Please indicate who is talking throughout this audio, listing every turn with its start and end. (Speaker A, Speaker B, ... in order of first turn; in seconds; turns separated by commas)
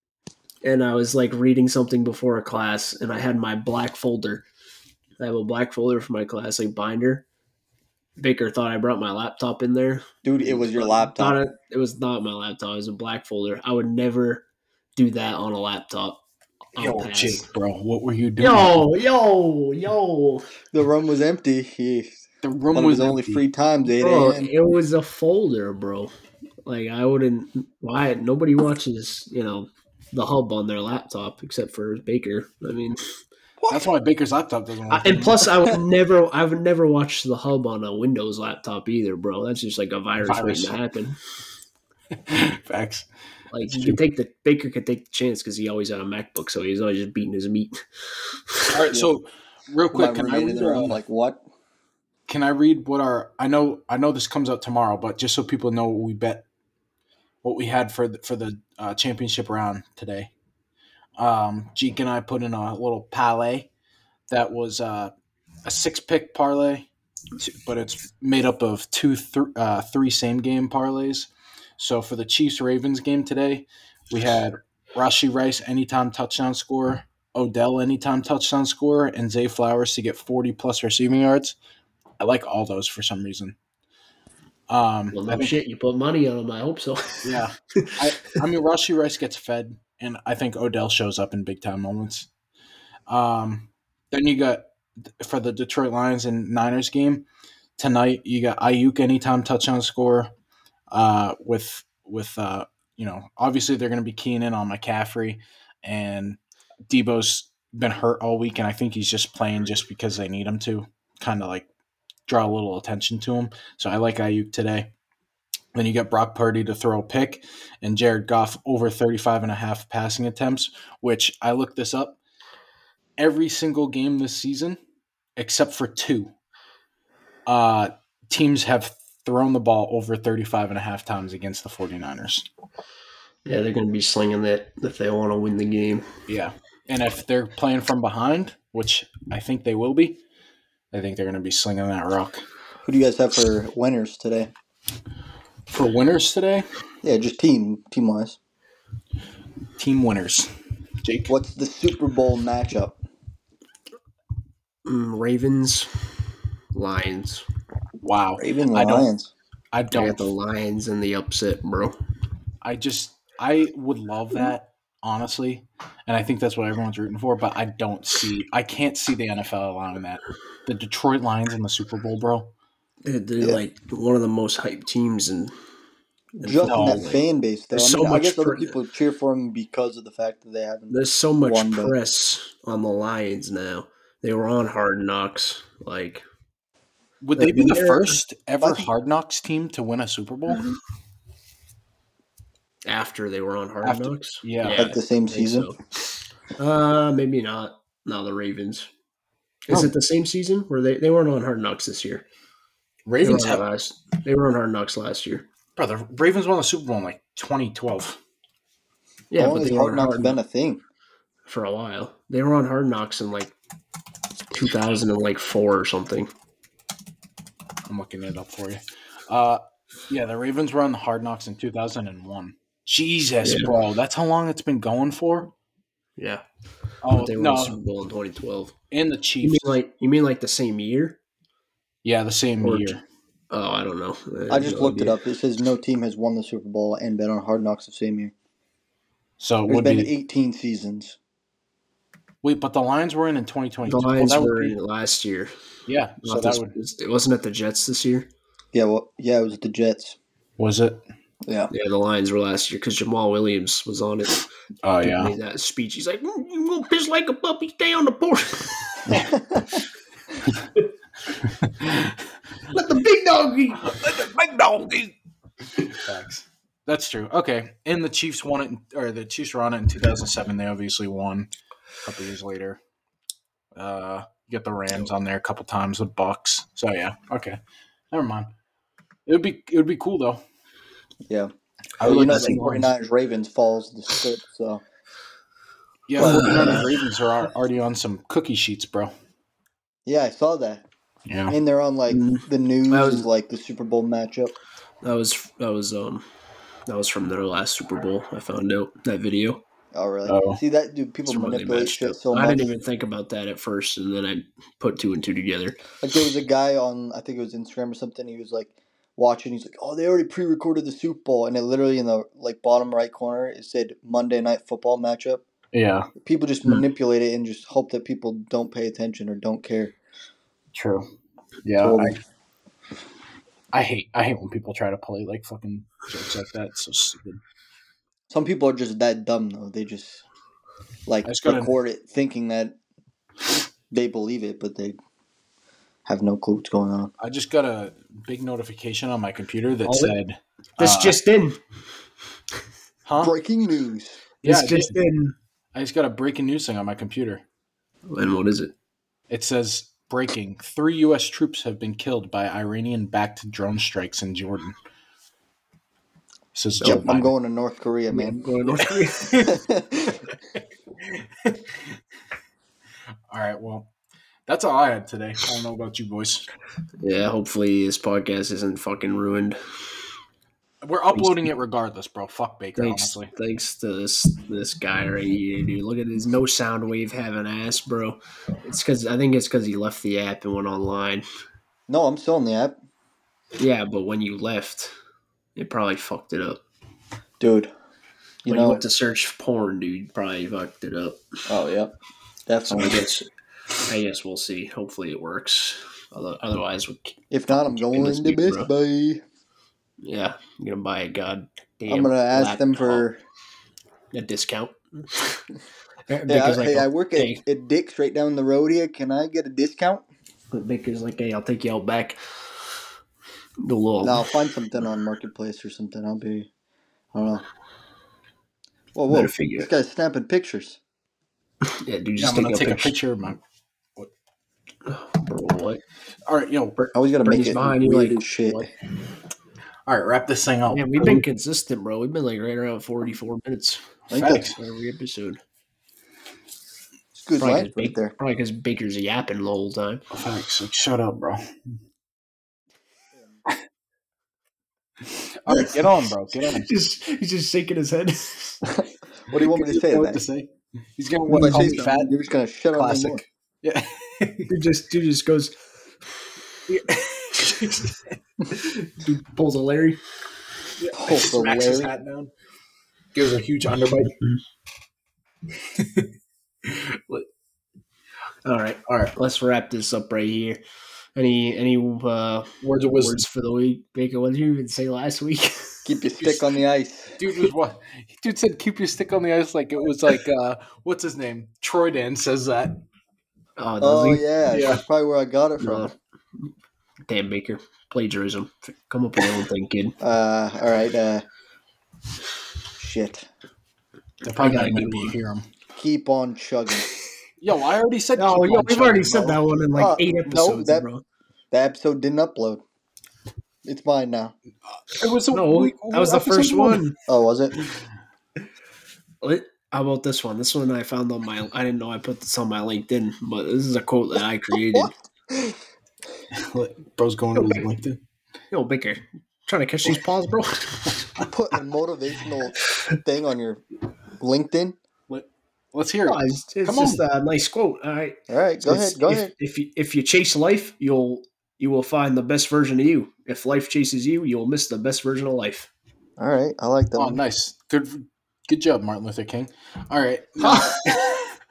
Speaker A: 0.6-4.4, Speaker A: 5.2-7.2, Speaker A: 8.2-14.4, Speaker B: 10.2-11.4, Speaker A: 14.9-16.2, Speaker A: 16.7-17.5, Speaker C: 16.8-18.8, Speaker A: 18.4-20.5, Speaker B: 20.7-24.5, Speaker C: 22.4-23.4, Speaker A: 23.9-26.1, Speaker A: 26.6-33.0, Speaker B: 33.6-33.9, Speaker C: 33.7-35.5, Speaker A: 34.9-41.2, Speaker C: 40.2-40.8, Speaker C: 42.2-43.1, Speaker A: 43.5-47.8, Speaker C: 43.7-44.0, Speaker C: 48.7-51.0, Speaker B: 49.9-51.4, Speaker C: 52.3-56.5, Speaker C: 57.4-60.3, Speaker C: 61.2-63.7, Speaker C: 64.3-65.1, Speaker C: 65.6-81.5, Speaker C: 82.2-83.5, Speaker C: 84.7-85.5, Speaker A: 85.1-88.0, Speaker C: 87.2-92.3, Speaker C: 93.1-97.2, Speaker C: 97.8-100.3, Speaker C: 100.9-106.4, Speaker C: 106.9-111.7, Speaker C: 112.3-114.9, Speaker C: 115.7-122.2, Speaker C: 123.2-124.8, Speaker C: 125.4-126.3, Speaker C: 127.5-132.4, Speaker A: 133.4-136.1, Speaker C: 136.3-140.2, Speaker C: 140.9-142.4, Speaker B: 142.8-144.5, Speaker C: 145.7-146.7, Speaker B: 147.0-148.4, Speaker C: 149.8-150.5, Speaker C: 151.0-151.3, Speaker B: 151.3-153.0, Speaker A: 154.8-155.9, Speaker A: 156.7-157.4, Speaker C: 158.0-159.1, Speaker B: 158.4-159.3, Speaker C: 159.7-160.3, Speaker A: 159.9-161.9, Speaker C: 162.6-172.5, Speaker A: 173.0-175.5, Speaker B: 176.4-181.9, Speaker A: 176.4-178.8, Speaker C: 176.7-177.0, Speaker A: 180.9-186.2, Speaker C: 187.2-190.7, Speaker A: 187.4-188.2, Speaker B: 188.6-188.9, Speaker A: 192.9-195.8, Speaker C: 193.8-194.8, Speaker B: 194.7-195.7, Speaker A: 196.5-198.9, Speaker A: 199.7-202.3, Speaker C: 203.1-203.6, Speaker A: 203.2-205.5, Speaker C: 205.8-208.2, Speaker A: 209.3-210.4, Speaker B: 209.4-210.8, Speaker A: 211.5-213.5, Speaker A: 214.5-216.3, Speaker C: 217.8-225.5, Speaker A: 223.4-223.8, Speaker A: 226.2-226.4, Speaker C: 227.0-227.8, Speaker A: 227.1-228.7, Speaker C: 228.9-229.8, Speaker A: 229.4-231.2, Speaker C: 232.0-233.0, Speaker A: 232.6-233.0, Speaker A: 233.5-235.2, Speaker B: 234.5-238.3, Speaker C: 239.4-240.1, Speaker B: 239.7-241.2, Speaker C: 242.4-244.8, Speaker A: 243.8-245.5, Speaker C: 245.9-246.7, Speaker A: 246.2-248.3, Speaker B: 248.7-250.2, Speaker C: 250.6-251.0, Speaker B: 251.4-251.7, Speaker A: 251.7-254.4, Speaker C: 254.8-255.3, Speaker A: 255.0-259.2, Speaker B: 259.1-259.8, Speaker C: 261.4-262.2, Speaker A: 262.7-263.9, Speaker C: 263.8-265.1, Speaker C: 265.8-271.5, Speaker C: 272.0-272.8, Speaker C: 273.7-277.6, Speaker C: 278.1-278.5, Speaker C: 279.2-280.4, Speaker C: 282.0-282.9, Speaker B: 282.0-284.8, Speaker A: 282.1-282.8, Speaker C: 286.1-289.1, Speaker A: 286.2-286.9, Speaker B: 286.2-286.9, Speaker B: 290.1-290.9, Speaker C: 291.3-291.6, Speaker B: 291.5-294.5, Speaker A: 292.1-293.3, Speaker A: 295.0-296.2, Speaker A: 296.9-299.6, Speaker B: 299.9-302.7, Speaker C: 300.2-300.6, Speaker A: 301.3-305.8, Speaker B: 306.0-315.4, Speaker C: 315.7-316.1, Speaker B: 316.2-319.9, Speaker C: 320.7-321.0, Speaker C: 321.6-322.1, Speaker B: 321.8-322.1, Speaker C: 323.7-327.4, Speaker B: 328.3-330.2, Speaker B: 331.1-332.8, Speaker C: 331.2-331.7, Speaker B: 333.9-334.9, Speaker B: 336.1-337.1, Speaker C: 337.2-341.2, Speaker A: 339.8-340.1, Speaker A: 340.8-341.6, Speaker C: 343.1-343.3, Speaker B: 343.2-344.2, Speaker C: 344.4-345.0, Speaker A: 344.4-345.4, Speaker C: 345.7-347.4, Speaker A: 348.1-348.7, Speaker C: 349.3-354.8, Speaker C: 356.5-357.3, Speaker A: 356.8-357.1, Speaker B: 356.8-358.5, Speaker A: 358.1-359.6, Speaker C: 359.2-359.5, Speaker B: 359.4-360.2, Speaker C: 361.0-361.9, Speaker C: 363.3-363.9, Speaker C: 364.5-366.5, Speaker A: 367.0-369.6, Speaker C: 370.8-373.3, Speaker A: 372.8-381.2, Speaker B: 381.9-382.8, Speaker A: 383.6-384.9, Speaker A: 385.5-386.6, Speaker B: 387.4-387.7, Speaker B: 388.4-388.8, Speaker A: 388.5-391.2, Speaker B: 391.5-391.9, Speaker B: 392.5-393.1, Speaker A: 392.7-393.3, Speaker A: 393.9-398.7, Speaker B: 397.3-399.2, Speaker A: 400.0-403.1, Speaker B: 401.9-403.2, Speaker A: 404.1-405.4, Speaker A: 406.1-407.4, Speaker B: 406.3-410.1, Speaker A: 410.5-412.2, Speaker A: 413.6-414.4, Speaker B: 414.0-416.5, Speaker B: 417.1-417.4, Speaker B: 418.9-420.8, Speaker A: 419.1-419.7, Speaker A: 421.6-422.9, Speaker C: 422.2-423.4, Speaker A: 424.8-425.8, Speaker C: 426.3-426.9, Speaker B: 426.9-428.7, Speaker A: 427.2-428.7, Speaker C: 429.9-431.2, Speaker A: 430.7-433.9, Speaker C: 434.1-434.6, Speaker B: 434.1-434.5, Speaker A: 434.5-435.4, Speaker B: 437.2-438.1, Speaker A: 437.4-440.0, Speaker C: 440.1-441.4, Speaker C: 445.2-446.7, Speaker A: 445.5-445.8, Speaker A: 446.4-448.6, Speaker B: 448.7-450.2, Speaker C: 449.3-452.1, Speaker A: 451.3-451.9, Speaker B: 451.3-453.2, Speaker C: 452.7-454.5, Speaker A: 454.5-455.5, Speaker C: 456.7-458.1, Speaker A: 458.5-460.0, Speaker C: 460.8-462.3, Speaker B: 460.9-461.9, Speaker C: 463.1-464.2, Speaker C: 465.8-466.1, Speaker C: 466.6-467.0, Speaker A: 468.4-470.6, Speaker A: 471.1-475.9, Speaker C: 472.6-473.2, Speaker B: 475.8-477.2, Speaker C: 477.2-482.8, Speaker A: 483.6-484.2, Speaker B: 483.8-485.9, Speaker C: 484.5-484.8, Speaker A: 485.6-485.9, Speaker A: 487.1-490.0, Speaker B: 490.0-491.2, Speaker B: 492.8-493.3, Speaker C: 494.2-495.5, Speaker A: 494.3-495.1, Speaker B: 495.8-496.9, Speaker C: 497.4-499.2, Speaker A: 498.2-501.0, Speaker B: 499.1-500.9, Speaker B: 501.5-502.6, Speaker B: 503.6-504.4, Speaker C: 504.9-506.8, Speaker A: 505.3-507.0, Speaker B: 507.1-507.6, Speaker A: 509.2-514.9, Speaker B: 514.7-515.6, Speaker C: 516.3-518.0, Speaker A: 518.5-521.1, Speaker B: 521.3-523.6, Speaker B: 524.2-524.8, Speaker C: 525.1-527.0, Speaker A: 526.0-535.7, Speaker B: 528.3-529.3, Speaker B: 536.2-537.2, Speaker C: 537.0-541.3, Speaker A: 540.4-541.0